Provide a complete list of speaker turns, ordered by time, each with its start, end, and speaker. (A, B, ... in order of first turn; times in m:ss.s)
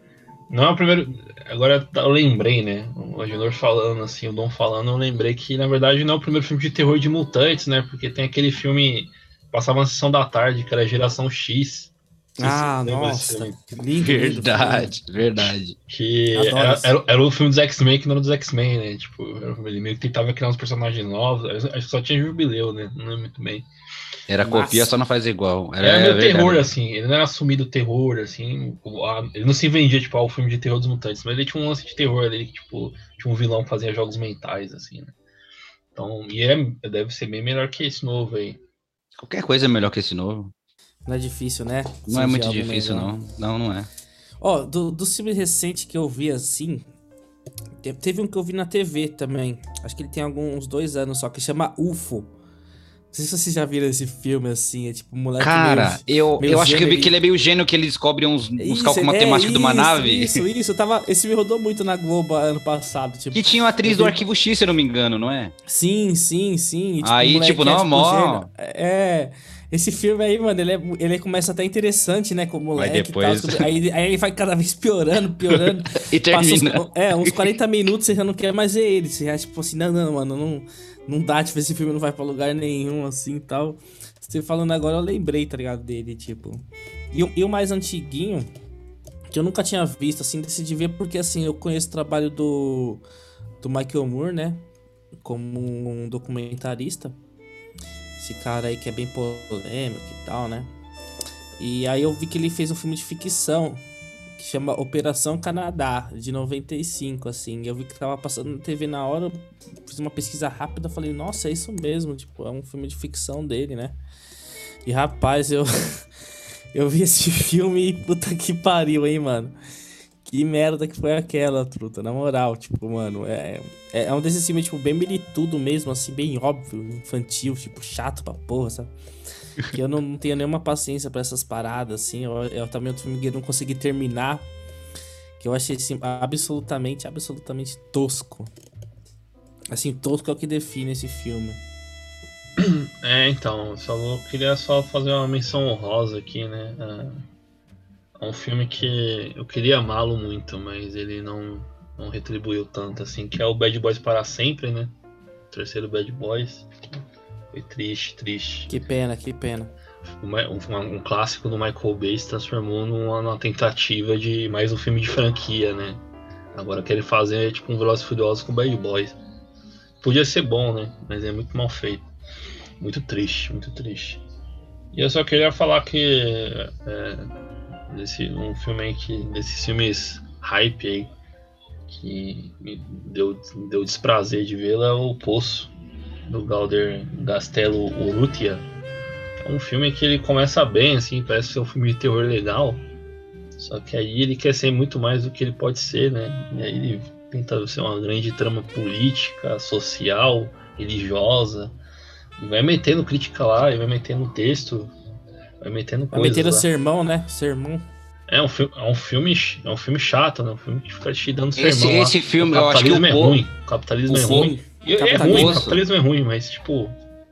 0:00.5-0:13.6 A
0:12.4-0:14.9 B
0:14.0-0:15.7 C
0:15.9-0:23.7 A
0:16.3-0:16.9 B
0:24.3-0:26.7 C
0:24.4-0:24.9 B
0:25.8-0:35.1 A
0:35.9-0:38.6 A
0:39.2-0:40.5 C
0:41.0-0:43.1 B
0:42.1-0:43.9 C
0:44.4-0:46.8 B
0:47.8-0:52.3 B
0:53.1-0:57.1 B
0:55.4-1:00.4 C
0:58.6-1:04.2 B
1:03.3-1:05.5 C
1:05.7-1:28.5 B
1:07.0-1:08.5 C
1:12.8-1:13.7 C
1:15.5-1:17.5 C
1:29.3-1:33.0 B
1:33.6-1:34.6 B
1:35.2-1:37.2 B
1:38.2-1:40.7 B
1:41.6-1:43.8 B
1:44.4-1:54.0 B
1:54.8-1:55.7 B
1:56.7-1:59.5 B
2:00.2-2:08.9 B
2:09.7-2:14.4 B
2:15.4-2:18.5 B
2:19.7-2:21.6 B
2:22.6-2:27.2 A
2:28.2-2:34.9 A
2:35.5-2:36.7 A
2:37.5-2:38.7 A
2:38.7-2:39.7 B
2:40.2-2:46.0 A
2:46.5-2:49.2 A
2:50.0-2:52.0 A
2:52.8-2:54.2 A
2:54.9-2:57.3 A
2:57.9-3:01.1 A
3:01.9-3:05.7 A
3:06.3-3:08.6 A
3:09.4-3:12.8 A
3:13.6-3:21.7 A
3:22.4-3:24.9 A
3:25.6-3:26.7 A
3:26.1-3:27.8 B
3:28.3-3:37.0 A
3:31.6-3:33.4 C
3:34.1-3:34.5 C
3:34.1-3:35.7 B
3:35.1-3:35.8 C